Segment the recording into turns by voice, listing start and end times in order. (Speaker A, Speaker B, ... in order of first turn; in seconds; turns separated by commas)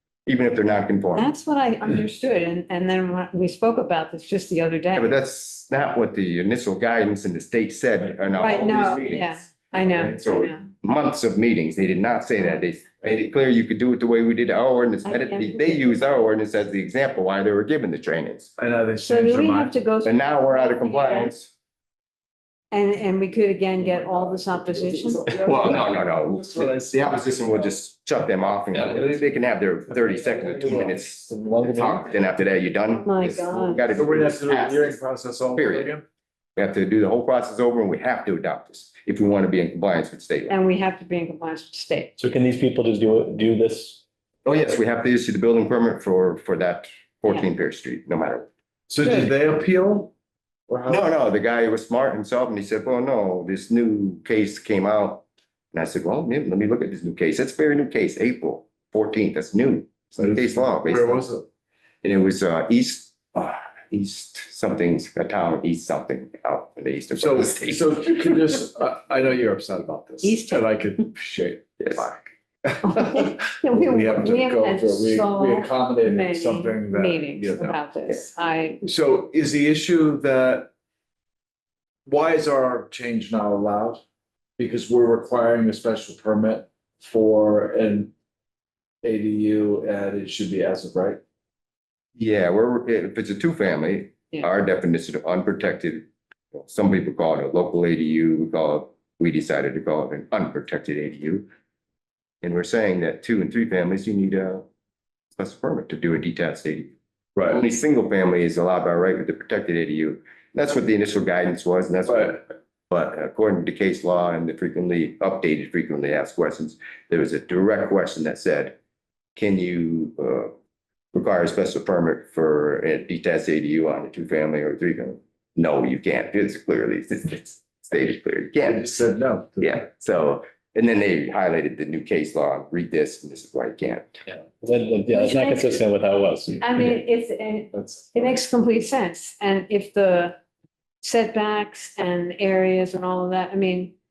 Speaker A: 0.3-1.3, Speaker B: 1.1-5.2, Speaker A: 4.9-18.5, Speaker B: 8.4-10.6, Speaker B: 15.1-16.1, Speaker C: 18.6-19.7, Speaker B: 19.0-21.3, Speaker A: 20.0-21.5, Speaker B: 22.7-25.7, Speaker C: 23.8-27.8, Speaker A: 25.4-35.0, Speaker C: 28.7-29.2, Speaker C: 29.9-32.2, Speaker B: 32.9-33.9, Speaker C: 33.9-36.0, Speaker A: 35.5-35.9, Speaker A: 36.6-40.5, Speaker B: 40.5-42.2, Speaker D: 42.2-44.0, Speaker A: 44.5-48.5, Speaker C: 48.9-50.1, Speaker C: 50.7-51.1, Speaker A: 50.9-61.2, Speaker C: 60.2-61.5, Speaker A: 62.0-68.2, Speaker C: 67.2-77.8, Speaker B: 70.2-70.8, Speaker A: 71.8-72.1, Speaker B: 72.8-78.8, Speaker C: 78.8-80.7, Speaker C: 82.1-84.0, Speaker C: 84.6-88.1, Speaker C: 89.0-91.2, Speaker A: 92.2-101.5, Speaker A: 102.4-104.7, Speaker A: 105.4-106.9, Speaker C: 107.4-107.6, Speaker A: 107.5-118.8, Speaker C: 112.1-112.4, Speaker A: 119.4-120.5, Speaker A: 121.1-128.8, Speaker C: 128.6-129.8, Speaker A: 129.6-134.1, Speaker D: 134.6-136.8, Speaker B: 135.1-135.8, Speaker B: 136.6-140.4, Speaker C: 137.7-138.4, Speaker B: 141.0-143.9